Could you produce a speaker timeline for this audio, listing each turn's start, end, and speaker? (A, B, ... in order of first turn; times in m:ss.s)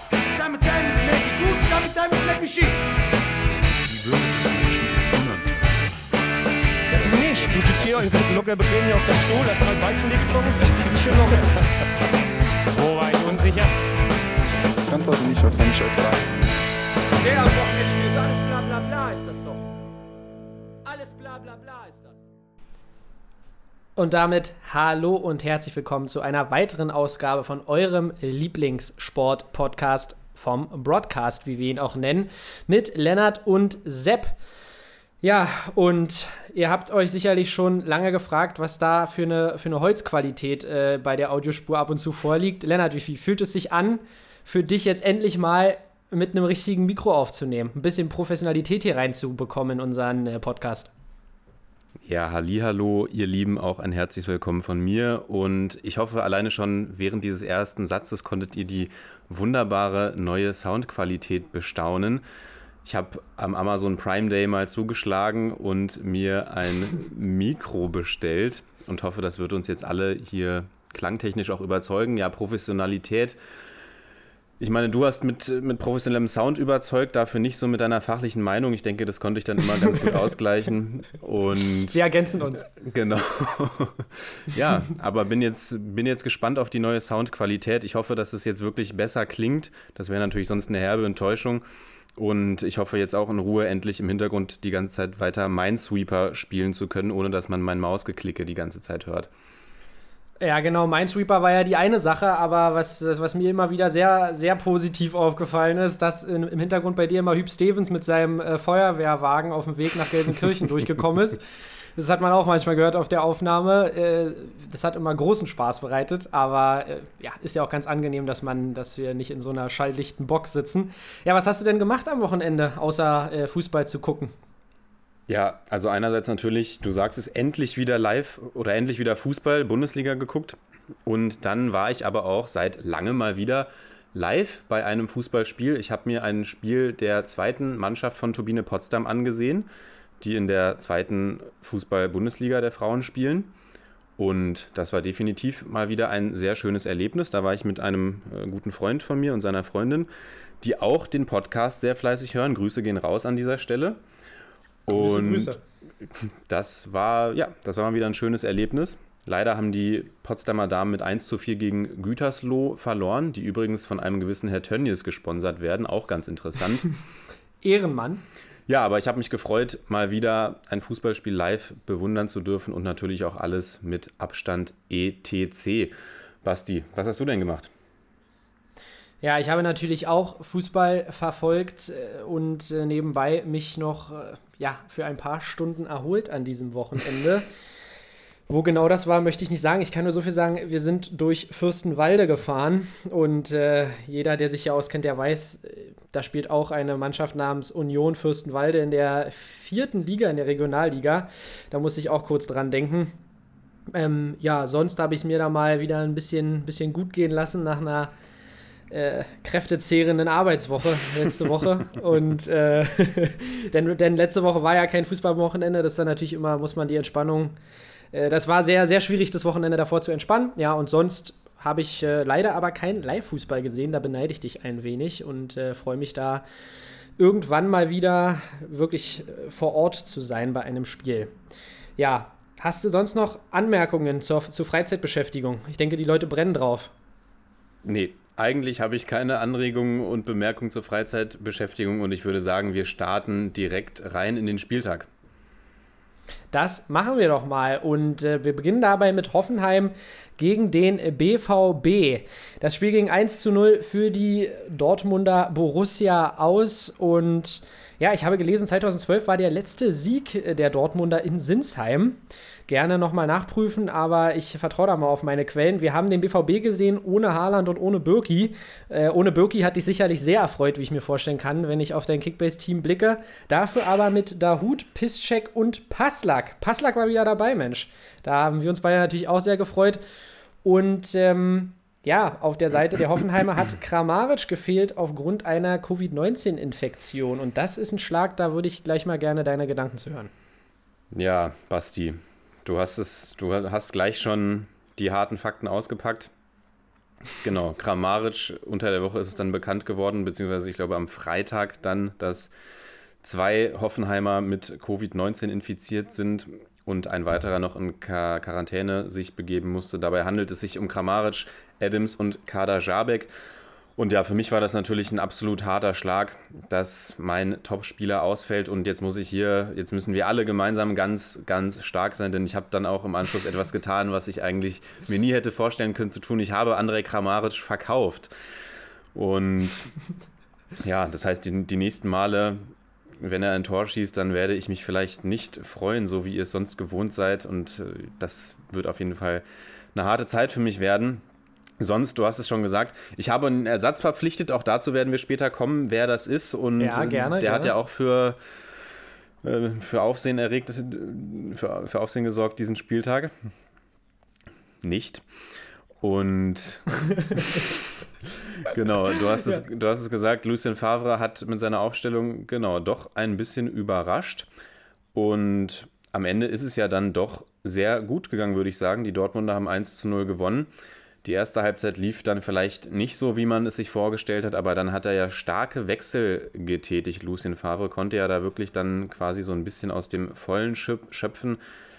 0:00.2-0:02.8 A
0:03.9-0:05.9 B
0:06.9-0:11.5 A
0:12.7-0:13.7 A
0:14.8-0:16.4 B
0:17.2-0:19.7 A
0:20.8-0:22.2 A
0:24.0-0:34.4 C
0:35.2-0:50.9 C
0:52.0-1:02.2 D
1:02.8-1:13.4 D
1:14.6-1:22.0 D
1:21.9-1:22.7 C
1:22.7-1:31.6 D
1:32.2-1:39.3 D
1:40.4-1:51.4 C
1:52.0-2:04.3 C
2:05.3-2:19.7 D
2:20.2-2:23.5 D
2:24.2-2:30.1 D
2:30.6-2:34.0 D
2:34.9-2:35.5 D
2:34.9-2:35.6 C
2:36.0-2:46.9 D
2:47.6-2:48.2 C
2:48.7-2:57.7 D
2:59.2-3:07.5 C
3:08.5-3:23.1 C
3:23.9-3:28.1 C
3:28.9-3:37.6 C
3:38.1-3:46.4 C
3:47.2-3:51.3 C
3:52.0-3:56.9 C
3:57.8-4:05.1 D
4:06.5-4:40.0 C
4:40.6-4:50.3 C
4:51.1-4:56.3 D
4:57.4-5:02.5 D
5:03.2-5:13.3 D
5:14.0-5:28.3 D
5:29.1-5:29.9 D
5:30.8-5:32.6 D
5:33.2-5:39.4 D
5:40.0-5:41.2 D
5:41.8-5:48.4 D
5:46.8-5:47.7 C
5:49.4-5:53.3 D
5:54.8-5:55.2 D
5:56.0-5:57.8 D
5:58.6-6:04.5 D
6:05.1-6:10.7 D
6:11.2-6:21.6 D